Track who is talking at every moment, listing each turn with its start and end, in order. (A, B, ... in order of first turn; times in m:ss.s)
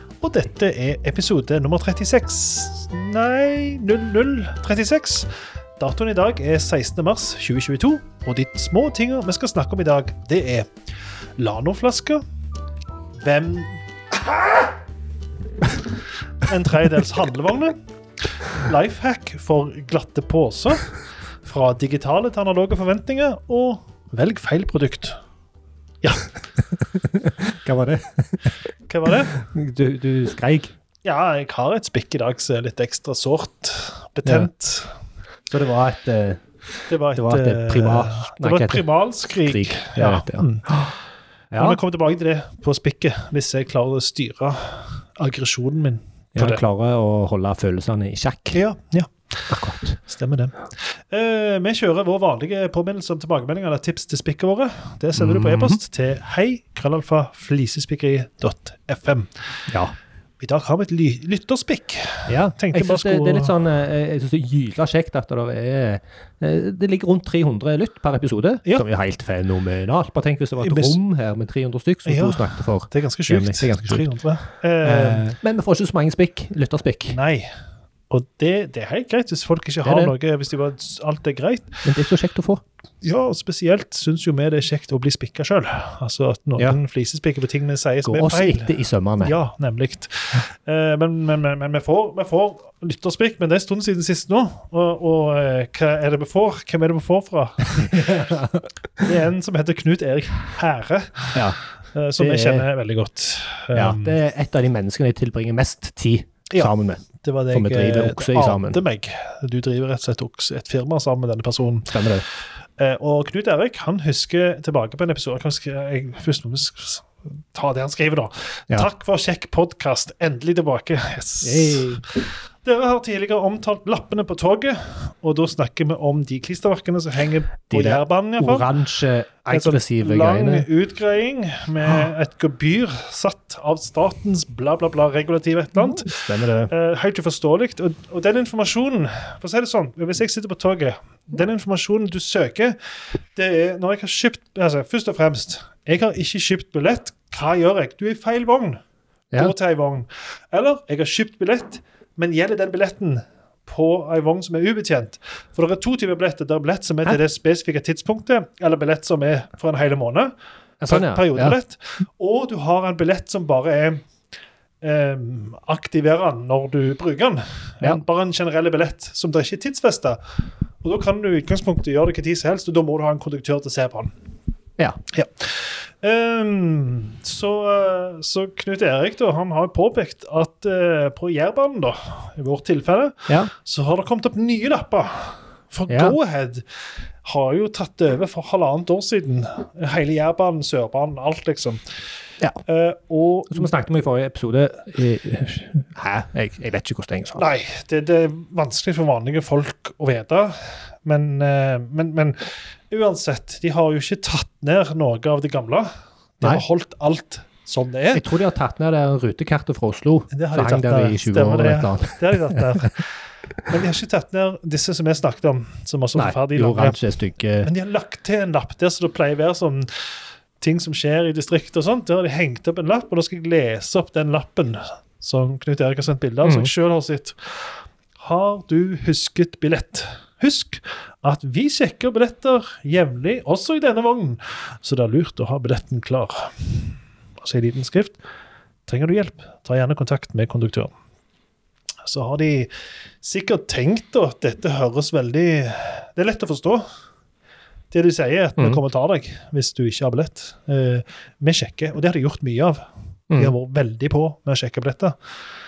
0:00.2-0:10.7 A
0:11.4-0:12.2 A
0:13.2-0:13.8 A
0:16.4-0:17.8 A
0:18.6-0:20.9 A
0:21.4-0:25.2 A
0:26.0-0:26.3 A
0:26.7-0:28.6 B
0:28.9-0:29.3 A
0:29.3-0:30.7 B
0:31.0-0:34.9 A
0:35.5-0:36.4 B
0:36.9-0:40.9 A
0:37.1-0:38.9 B
0:39.4-0:40.9 B
0:41.5-0:41.8 B
0:41.6-0:46.6 A
0:46.3-0:48.6 B
0:48.5-0:49.5 A
0:49.5-0:50.0 B
0:50.1-0:59.3 A
0:55.2-0:55.8 B
0:59.7-1:00.0 B
1:00.4-1:03.6 A
1:02.3-1:14.1 B
1:10.6-1:11.0 A
1:12.1-1:15.2 A
1:14.8-1:17.2 B
1:17.1-1:17.5 A
1:18.1-1:21.8 A
1:19.8-1:20.1 B
1:21.8-1:22.6 B
1:23.0-1:44.2 A
1:28.0-1:29.4 B
1:37.8-1:38.6 B
1:42.2-1:42.7 B
1:43.7-1:48.8 B
1:46.5-1:52.2 A
1:51.9-1:52.2 B
1:52.8-2:08.7 A
2:01.4-2:02.0 B
2:07.7-2:10.7 B
2:09.5-2:22.8 A
2:15.8-2:16.7 B
2:23.3-2:28.8 A
2:29.3-2:40.3 A
2:40.8-2:41.6 B
2:40.9-2:44.0 A
2:44.8-2:50.2 A
2:50.8-2:54.1 A
2:55.1-3:06.6 A
3:05.9-3:06.1 B
3:07.2-3:11.8 A
3:12.6-3:13.7 A
3:13.5-3:17.4 B
3:17.4-3:28.2 A
3:28.1-3:32.8 B
3:30.3-3:33.1 A
3:33.7-3:37.0 A
3:36.1-3:37.7 B
3:37.6-3:40.1 A
3:40.6-3:47.6 A
3:46.4-3:46.7 B
3:48.2-3:58.2 A
3:58.9-4:00.9 A
4:02.1-4:02.7 A
4:03.2-4:06.8 A
4:07.9-4:12.8 A
4:13.3-4:15.2 A